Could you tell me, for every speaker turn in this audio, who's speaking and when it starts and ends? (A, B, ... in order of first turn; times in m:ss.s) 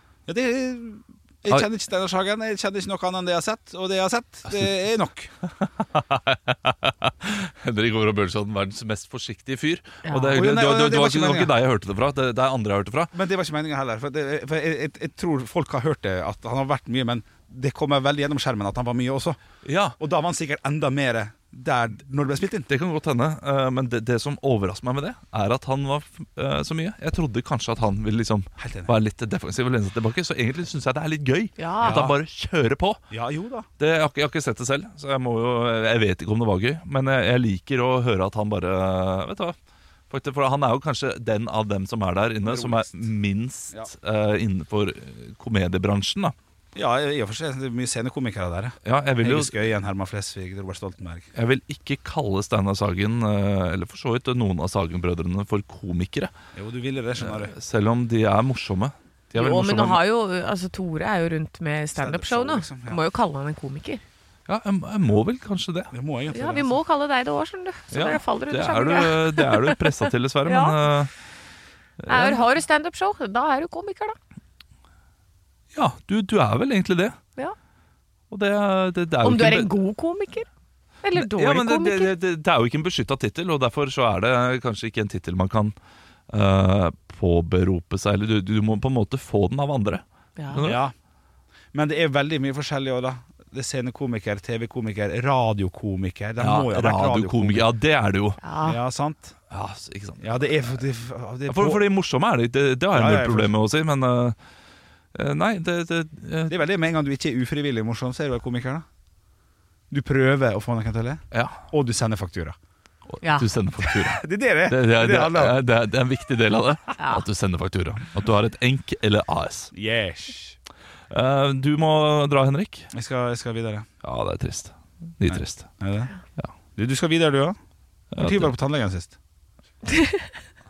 0:00.3-0:05.3 A
0:05.9-0:13.1 B
0:10.1-0:10.4 C
0:10.3-0:11.5 A
0:13.1-0:19.4 A
0:19.6-0:20.0 B
0:20.0-0:22.7 A
0:22.7-0:33.0 B
0:28.6-0:28.9 A
0:31.6-0:32.1 C
0:31.8-0:32.2 A
0:33.1-0:33.7 A
0:33.8-0:39.6 B
0:40.1-0:46.4 B
0:42.4-0:43.0 A
0:46.8-0:51.3 A
0:48.9-0:49.6 B
0:51.4-0:56.3 B
0:56.6-0:57.5 A
0:57.2-1:00.0 B
0:59.4-1:04.0 C
1:02.0-1:03.0 A
1:04.5-1:05.9 B
1:05.9-1:06.8 A
1:06.3-1:09.9 C
1:07.9-1:11.1 B
1:10.5-1:10.9 C
1:12.0-1:12.4 B
1:12.1-1:14.2 C
1:15.7-1:17.2 B
1:18.3-1:19.7 B
1:19.2-1:20.5 C
1:21.0-1:22.1 C
1:21.1-1:25.7 B
1:26.3-1:30.8 B
1:30.4-1:30.7 C
1:30.6-1:30.9 A
1:31.7-1:37.7 A
1:36.4-1:38.4 B
1:38.4-1:38.8 C
1:38.6-1:39.4 A
1:39.5-1:40.7 B
1:40.2-1:41.8 A
1:41.5-1:44.4 B
1:42.9-1:43.5 A
1:45.1-1:46.6 B
1:46.5-1:48.8 A
1:49.9-1:52.6 A
1:51.3-1:51.6 B
1:53.1-1:59.7 B
1:53.8-1:55.6 A
1:57.0-1:57.2 C
1:59.7-2:00.6 A
2:01.1-2:02.9 B
2:02.9-2:03.9 A
2:04.0-2:05.8 B
2:05.3-2:06.1 A
2:06.8-2:07.6 A
2:08.1-2:08.5 B
2:08.2-2:09.2 A
2:09.9-2:10.3 C